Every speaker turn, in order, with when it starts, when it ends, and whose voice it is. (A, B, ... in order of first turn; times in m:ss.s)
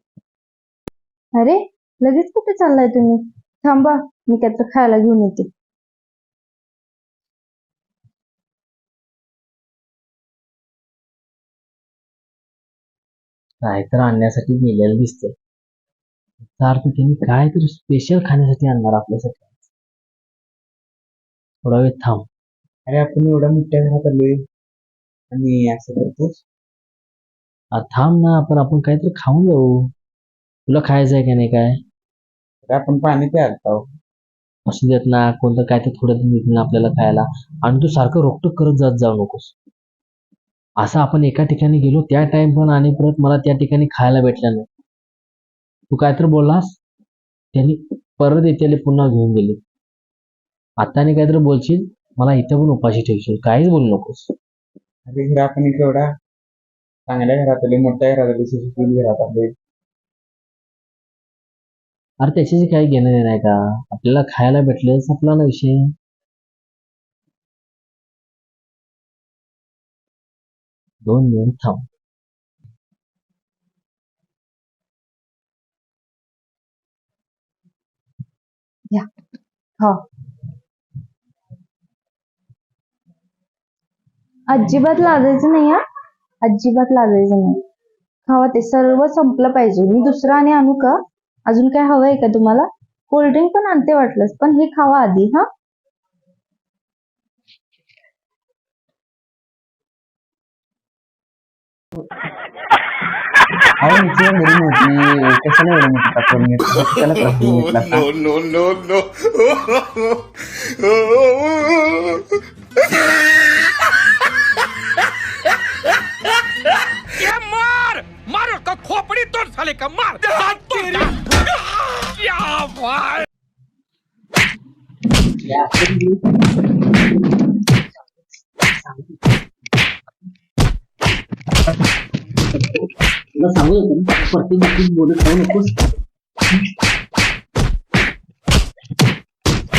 0:01.3-0:05.5 A
0:13.6-0:15.3 B
0:16.4-0:19.7 B
0:21.6-0:22.3 B
0:22.9-0:24.4 C
0:25.3-0:26.4 C
0:27.7-0:29.9 B
0:30.7-0:31.8 B
0:32.7-0:33.9 C
0:34.7-0:39.6 B
0:40.8-0:44.7 B
0:45.9-0:46.8 B
0:47.5-0:49.6 B
0:50.8-0:54.3 B
0:55.1-0:56.1 C
0:57.1-0:59.5 C
1:02.2-1:05.9 B
1:11.0-1:11.9 B
1:24.5-1:25.8 A
1:26.4-1:27.6 A
1:28.3-1:35.5 A
1:43.8-1:48.1 C
1:46.9-1:52.3 D
1:53.0-1:53.7 D
1:57.2-2:03.3 E
2:05.2-2:06.5 B
2:08.7-2:09.2 B
2:12.6-2:12.8 B
2:13.4-2:15.8 B